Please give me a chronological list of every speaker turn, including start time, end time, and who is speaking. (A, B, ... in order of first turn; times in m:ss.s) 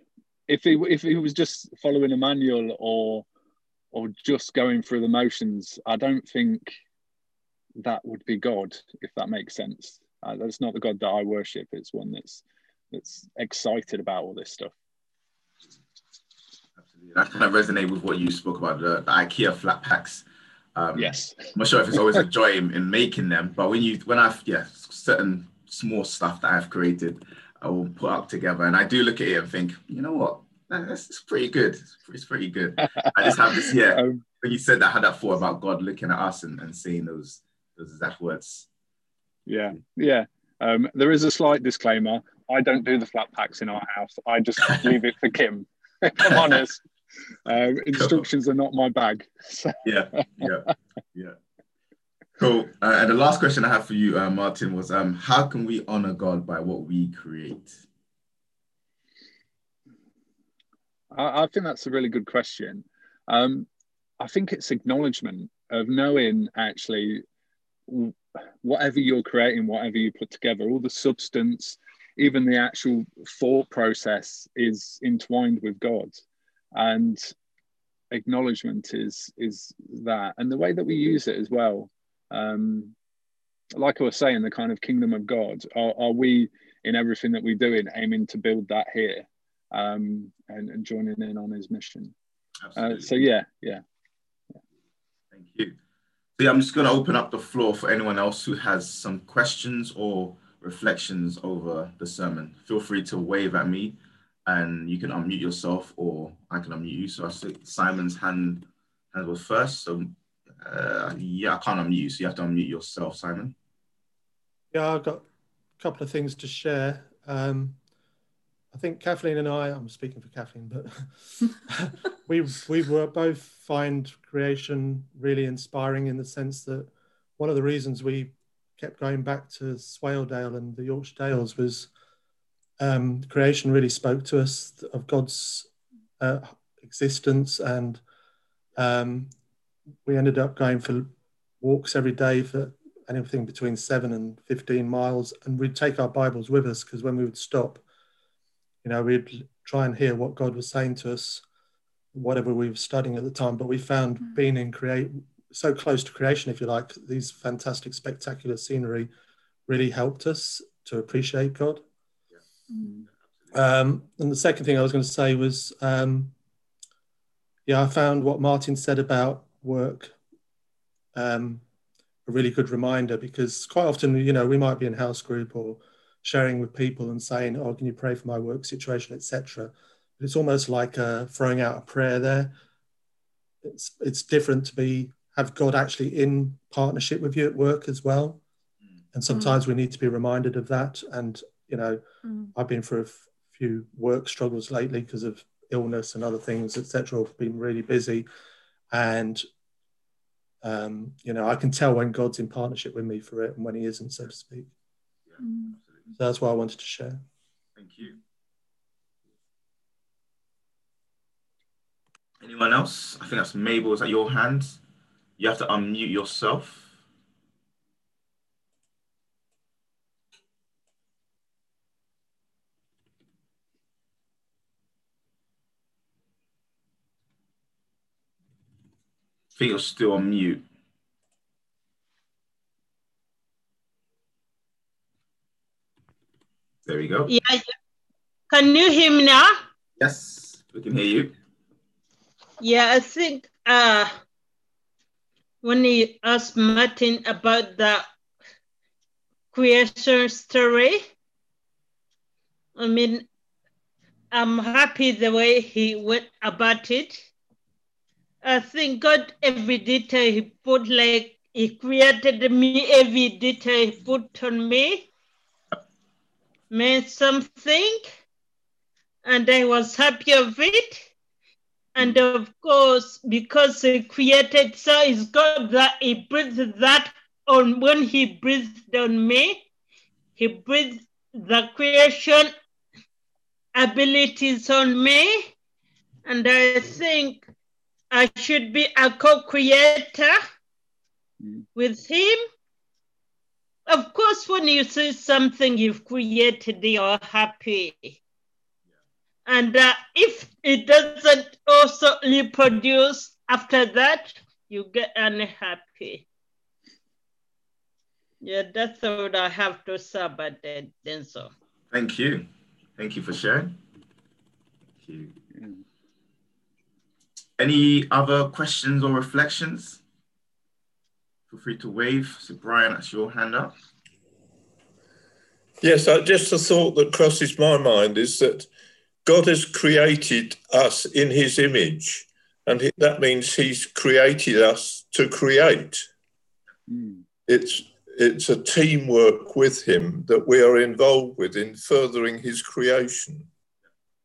0:00.5-0:03.2 A
0:03.9-0:06.8 A
0:07.8-0:14.7 A
0:16.8-0:33.9 B
0:21.0-0:22.2 A
0:33.0-0:34.2 A
0:34.4-0:38.7 B
0:39.5-0:46.8 A
0:47.5-0:50.7 A
0:47.9-0:48.2 B
0:49.8-0:51.4 B
0:52.4-0:57.8 B
1:01.1-1:03.7 A
1:04.2-1:07.2 A
1:07.9-1:16.2 A
1:16.7-1:17.3 A
1:18.1-1:22.9 A
1:23.7-1:32.1 A
1:32.7-1:33.1 B
1:32.8-1:33.8 A
1:35.3-1:35.8 B
1:36.4-1:53.6 B
1:54.7-1:55.2 C
1:55.8-1:57.8 C
1:58.7-2:11.9 C
2:12.8-2:15.7 C
2:16.2-2:18.0 C
2:18.8-2:19.3 C
2:20.1-2:21.1 C
2:21.6-2:27.8 C
2:28.8-2:31.4 C
2:32.1-2:39.1 C
2:39.7-2:41.8 C
2:43.5-2:46.3 C
2:47.7-2:50.2 C
2:51.2-2:51.6 C
2:52.3-3:02.5 C
3:03.6-3:08.4 C
3:09.1-3:12.0 C
3:09.3-3:09.6 B
3:12.6-3:18.3 C
3:18.9-3:19.4 C
3:20.6-3:24.7 C
3:25.4-3:25.7 B
3:26.1-3:27.2 C
3:27.8-3:28.1 B
3:32.4-3:34.8 B
3:35.4-3:36.9 B
3:49.6-3:50.7 B
3:56.9-3:57.3 B
3:57.3-3:57.6 D
3:58.5-3:59.5 D
4:00.0-4:01.3 B
4:02.6-4:04.1 D
4:05.6-4:08.0 D
4:09.5-4:11.0 D
4:12.8-4:13.3 D
4:14.3-4:17.2 D
4:18.4-4:25.1 D
4:26.7-4:28.1 D
4:29.2-4:31.1 D
4:32.0-4:39.6 D
4:40.4-4:42.5 D
4:43.7-4:45.4 D
4:46.2-4:47.4 D
4:48.1-4:50.4 D
4:51.8-4:52.4 D
4:53.9-4:58.2 D
4:59.5-5:06.2 D
5:08.4-5:11.5 D
5:11.9-5:13.8 B
5:15.0-5:15.3 B
5:15.5-5:15.8 A
5:17.6-5:20.0 B
5:21.5-5:23.8 B
5:25.8-5:28.7 E
5:29.3-5:36.1 E
5:36.9-5:37.2 A
5:37.5-5:43.5 E